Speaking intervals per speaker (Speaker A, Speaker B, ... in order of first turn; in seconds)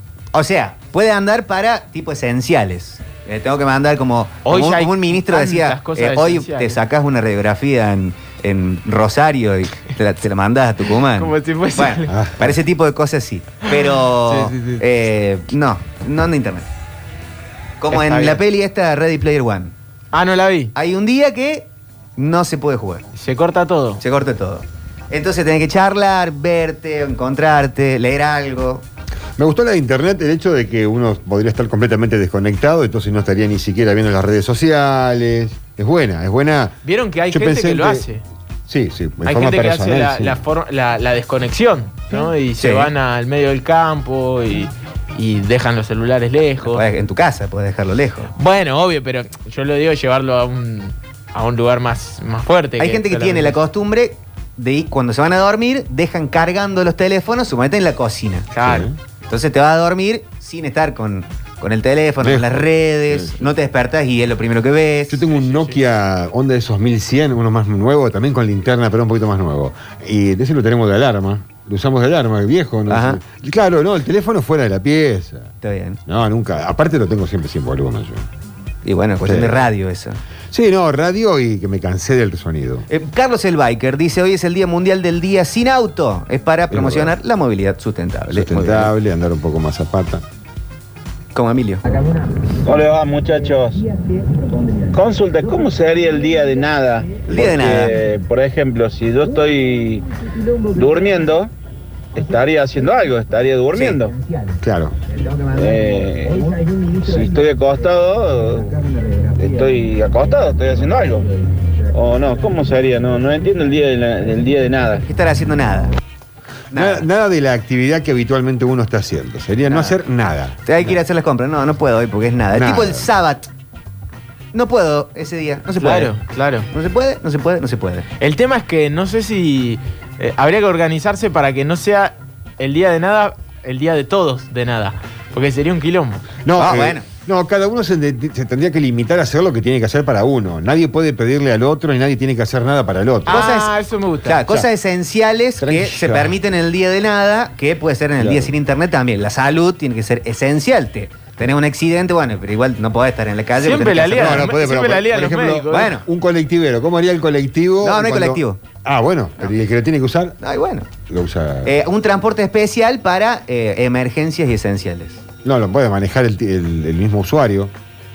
Speaker A: 0.3-16.6, 17.8-19.7, 20.7-23.0, 24.0-28.8, 42.6-42.9, 46.6-48.3, 52.8-58.5, 59.3-65.2, 72.9-73.2, 75.6-76.0, 78.8-80.2, 82.9-88.9, 91.3-91.8, 97.3-98.0, 115.0-115.9, 116.7-117.0, 119.7-120.0, 120.6-123.5, 124.5-126.1, 126.7-128.1, 136.6-137.0, 143.3-143.7, 144.2-154.5, 155.7-156.0, 157.8-158.6, 160.4-160.9, 161.6-165.2
Speaker B: 4.4-6.8, 11.2-12.1, 13.7-14.8, 17.9-18.4, 20.1-20.7, 23.1-24.0, 36.8-38.2, 39.2-46.8, 48.4-53.6, 58.5-58.9, 65.3-65.8, 125.8-126.7, 128.2-136.2, 143.2-144.4, 153.6-155.9
Speaker C: 12.1-12.5, 29.4-36.8, 37.3-38.0, 38.7-40.4, 58.6-59.0, 62.2-63.5, 65.1-75.5, 76.0-78.2, 79.2-79.6, 80.5-82.9, 86.7-87.1, 88.3-90.2, 104.6-104.9, 116.7-121.0, 122.5-123.1, 136.4-143.4, 145.6-146.4, 148.2-148.5, 154.2-160.4, 161.1-161.7, 165.4-167.7
Speaker D: 92.7-93.8, 94.9-100.0, 100.7-101.5, 102.1-104.1, 105.5-106.4, 107.0-108.7, 109.4-111.3, 111.9-115.0